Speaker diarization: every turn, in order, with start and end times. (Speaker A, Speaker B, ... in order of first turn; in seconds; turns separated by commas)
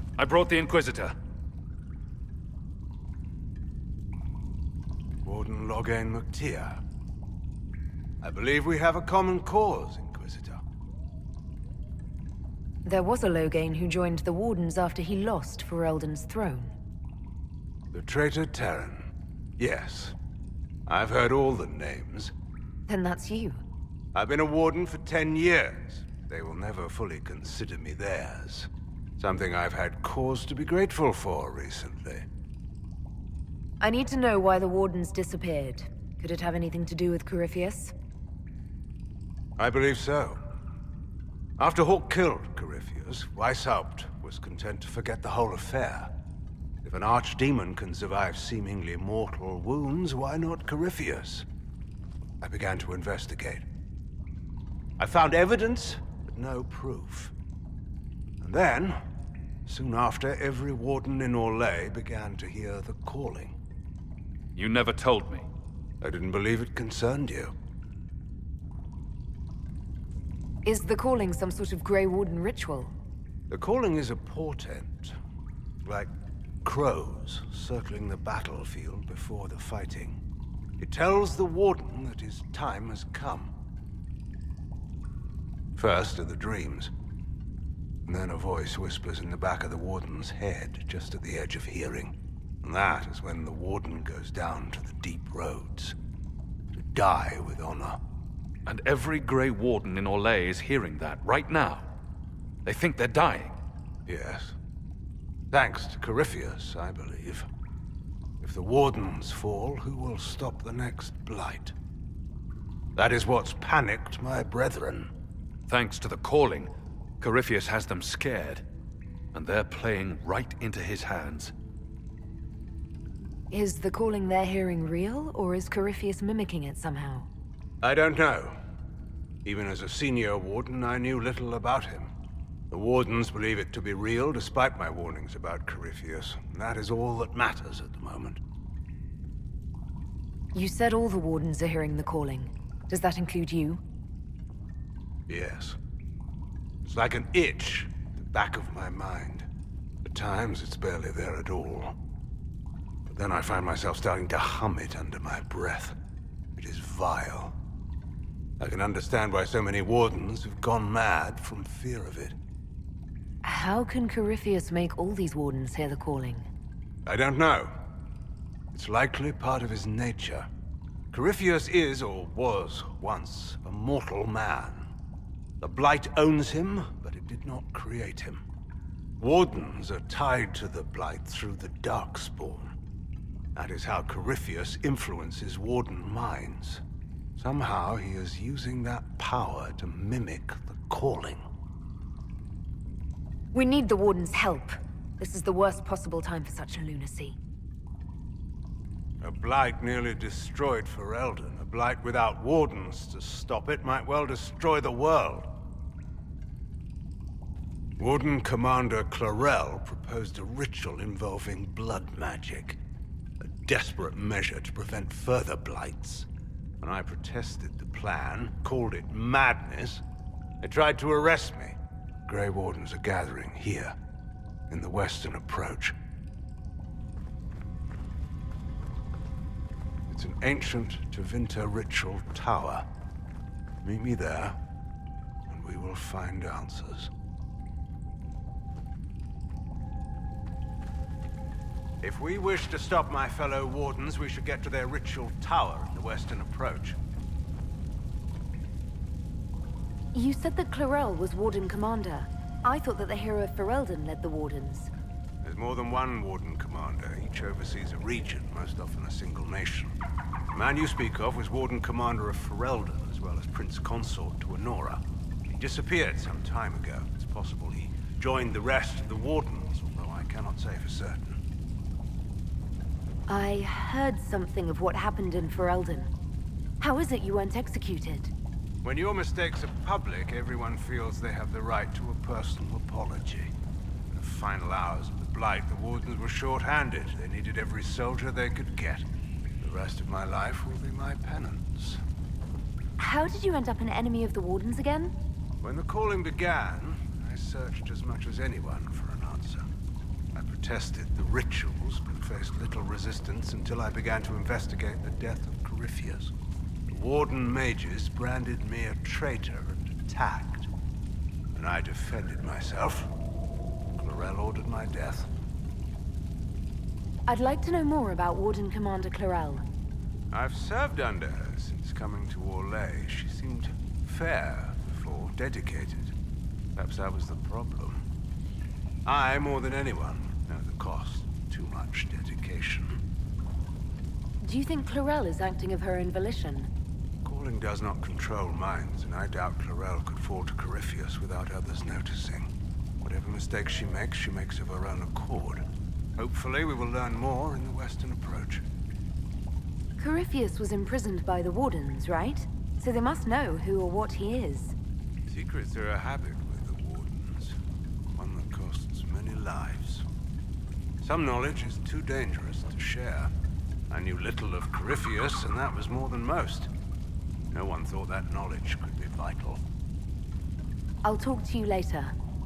Speaker A: 0.2-1.1, Speaker B: 5.2-6.8, Speaker B: 8.2-10.6, Speaker C: 12.8-16.8, Speaker B: 17.9-20.2, Speaker B: 20.9-22.3, Speaker C: 22.9-23.6, Speaker B: 24.1-32.2, Speaker C: 33.8-37.9, Speaker B: 39.6-40.4, Speaker B: 41.6-46.1, Speaker B: 46.8-51.5, Speaker B: 52.4-53.6, Speaker B: 55.0-57.3, Speaker B: 58.4-59.0, Speaker B: 59.6-63.5, Speaker A: 64.5-65.5, Speaker B: 66.0-67.5, Speaker C: 70.6-72.9, Speaker B: 73.5-75.2, Speaker B: 75.8-76.1, Speaker B: 76.6-80.2, Speaker B: 80.8-83.5, Speaker B: 85.8-86.9, Speaker B: 88.0-96.0, Speaker B: 96.7-98.0, Speaker A: 98.7-101.9, Speaker A: 102.6-103.5, Speaker B: 104.0-104.6, Speaker B: 105.5-107.5, Speaker B: 108.4-111.7, Speaker B: 113.0-115.1, Speaker A: 115.7-118.6, Speaker A: 119.3-121.5, Speaker C: 123.5-127.3, Speaker B: 127.8-128.6, Speaker B: 129.4-132.1, Speaker B: 132.7-138.4, Speaker C: 140.5-143.8, Speaker B: 145.3-145.8, Speaker B: 146.8-149.5, Speaker B: 150.0-151.9, Speaker B: 153.0-155.9, Speaker B: 156.6-157.6, Speaker B: 158.6-162.4, Speaker C: 163.4-166.5, Speaker B: 167.1-167.7, Speaker B: 168.7-170.5, Speaker B: 171.1-174.9, Speaker B: 175.6-178.4, Speaker B: 179.2-182.7, Speaker B: 183.5-186.8, Speaker B: 187.3-191.4, Speaker C: 193.5-197.4, Speaker B: 199.2-205.5, Speaker B: 208.0-212.8, Speaker B: 213.4-216.3, Speaker B: 216.8-220.0, Speaker B: 220.6-223.9, Speaker B: 224.7-225.9, Speaker B: 230.1-232.8, Speaker B: 233.8-234.6, Speaker B: 235.5-237.1, Speaker B: 242.0-247.0, Speaker C: 250.1-254.9, Speaker B: 255.4-259.9, Speaker B: 260.5-271.4, Speaker C: 273.3-276.1, Speaker C: 276.8-278.3, Speaker B: 278.8-283.5, Speaker B: 284.1-289.1, Speaker B: 289.6-292.0, Speaker C: 293.0-295.1, Speaker B: 295.6-299.7, Speaker B: 300.3-306.3, Speaker B: 306.9-310.7, Speaker B: 311.5-313.1, Speaker B: 313.9-315.3, Speaker C: 317.3-319.6, Speaker B: 320.3-326.1, Speaker B: 326.7-328.0, Speaker B: 329.1-333.0, Speaker C: 334.4-336.7, Speaker B: 337.2-342.5, Speaker B: 343.0-345.6, Speaker B: 346.1-348.6, Speaker C: 350.0-354.7, Speaker B: 355.3-357.6, Speaker B: 358.1-360.1, Speaker B: 361.0-363.3, Speaker B: 363.9-366.7, Speaker B: 367.5-369.6, Speaker C: 371.0-372.1